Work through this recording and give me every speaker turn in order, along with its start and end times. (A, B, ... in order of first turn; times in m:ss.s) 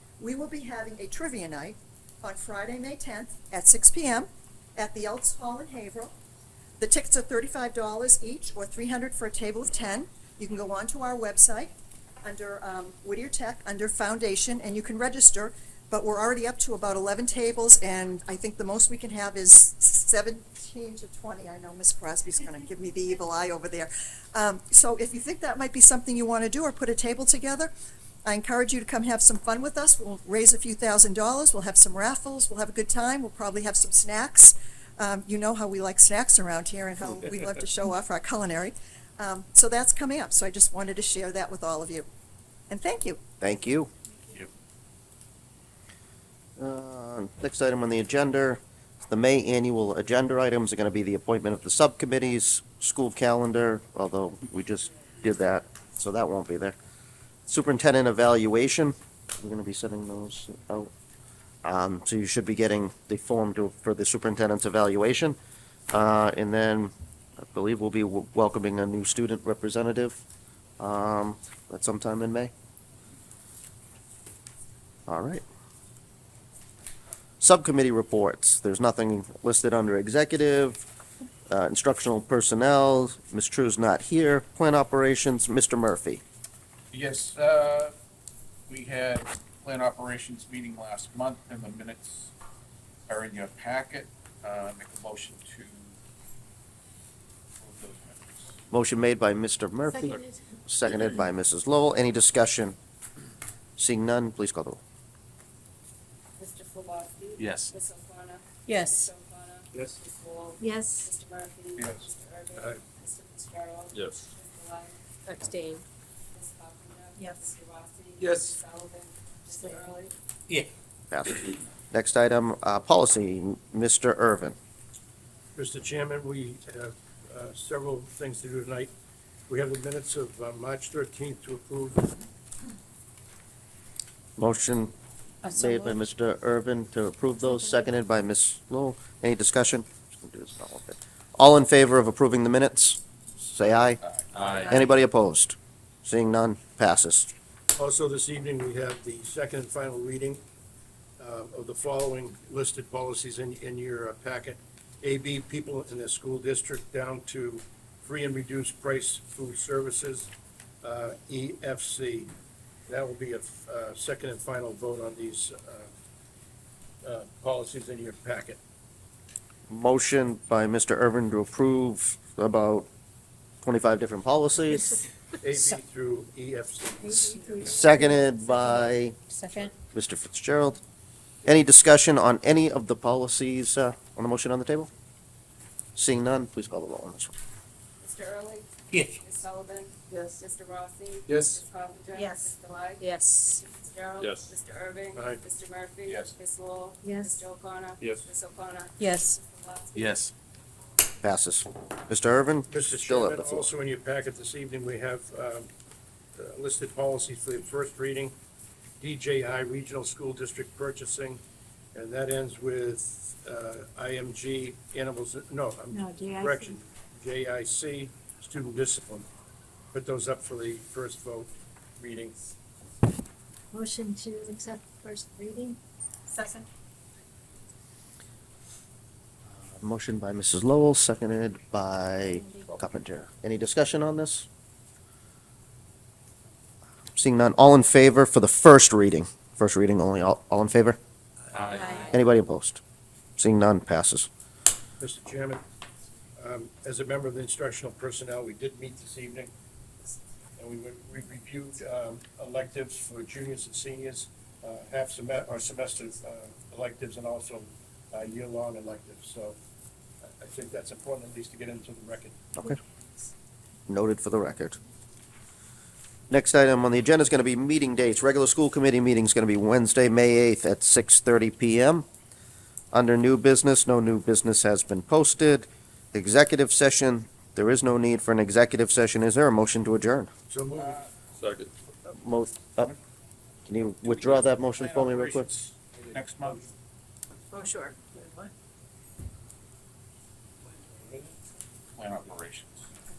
0:00.2-0:06.1 A
0:06.8-0:11.7 A
0:12.2-0:27.7 A
0:28.2-0:42.1 A
0:42.7-0:43.2 A
0:43.4-0:43.9 B
0:46.6-0:56.7 B
0:57.5-1:00.9 B
1:01.6-1:05.4 B
1:05.9-1:10.2 B
1:10.8-1:12.5 B
1:15.1-1:15.4 B
1:17.4-1:20.8 B
1:21.5-1:26.2 B
1:26.9-1:27.9 C
1:28.7-1:32.3 C
1:33.1-1:35.9 C
1:37.6-1:38.5 C
1:38.7-1:42.8 B
1:43.8-1:44.8 B
1:46.4-1:55.0 D
1:47.4-1:47.7 C
1:48.7-1:49.1 E
1:50.6-1:51.1 E
1:53.9-1:54.2 F
1:55.3-1:55.8 E
1:56.3-2:00.1 D
1:57.2-1:57.5 E
1:58.2-1:58.6 F
1:59.6-1:59.8 E
2:01.1-2:04.6 B
2:05.5-2:08.9 G
2:09.5-2:12.2 G
2:14.4-2:14.9 B
2:15.4-2:15.9 E
2:15.4-2:27.3 B
2:24.3-2:24.6 F
2:27.7-2:30.4 G
2:31.2-2:40.3 G
2:40.8-2:42.3 G
2:42.9-2:45.9 G
2:47.0-2:48.6 G
2:49.7-2:52.9 B
2:53.6-2:55.0 B
2:55.4-2:57.6 G
2:57.0-2:59.7 E
2:57.6-2:59.2 B
2:59.8-3:00.8 B
3:01.4-3:04.9 B
3:06.0-3:07.3 B
3:08.0-3:20.2 D
3:11.3-3:11.6 F
3:12.1-3:13.6 E
3:14.2-3:14.5 F
3:15.1-3:15.4 G
3:16.0-3:16.4 C
3:17.0-3:17.4 E
3:19.0-3:19.3 E
3:21.2-3:23.7 B
3:22.7-3:25.7 G
3:26.4-3:28.3 G
3:29.0-3:31.4 G
3:31.9-3:39.3 G
3:35.9-3:36.8 E
3:39.9-3:42.4 G
3:43.7-3:45.8 E
3:46.3-3:46.6 E
3:49.7-3:54.5 B
3:57.2-4:01.0 B
4:01.5-4:02.1 C
4:02.0-4:02.8 B
4:03.4-4:04.3 B
4:05.0-4:05.6 G
4:06.4-4:09.5 G
4:10.6-4:19.6 G
4:20.2-4:22.4 G
4:23.9-4:24.8 B
4:26.3-4:32.0 B
4:32.9-4:40.3 B
4:40.5-4:41.0 G
4:40.8-4:41.0 C
4:41.4-4:41.7 F
4:42.1-4:42.9 B
4:43.6-4:45.5 B
4:44.2-4:46.7 C
4:47.5-4:48.5 E
4:52.0-4:52.8 C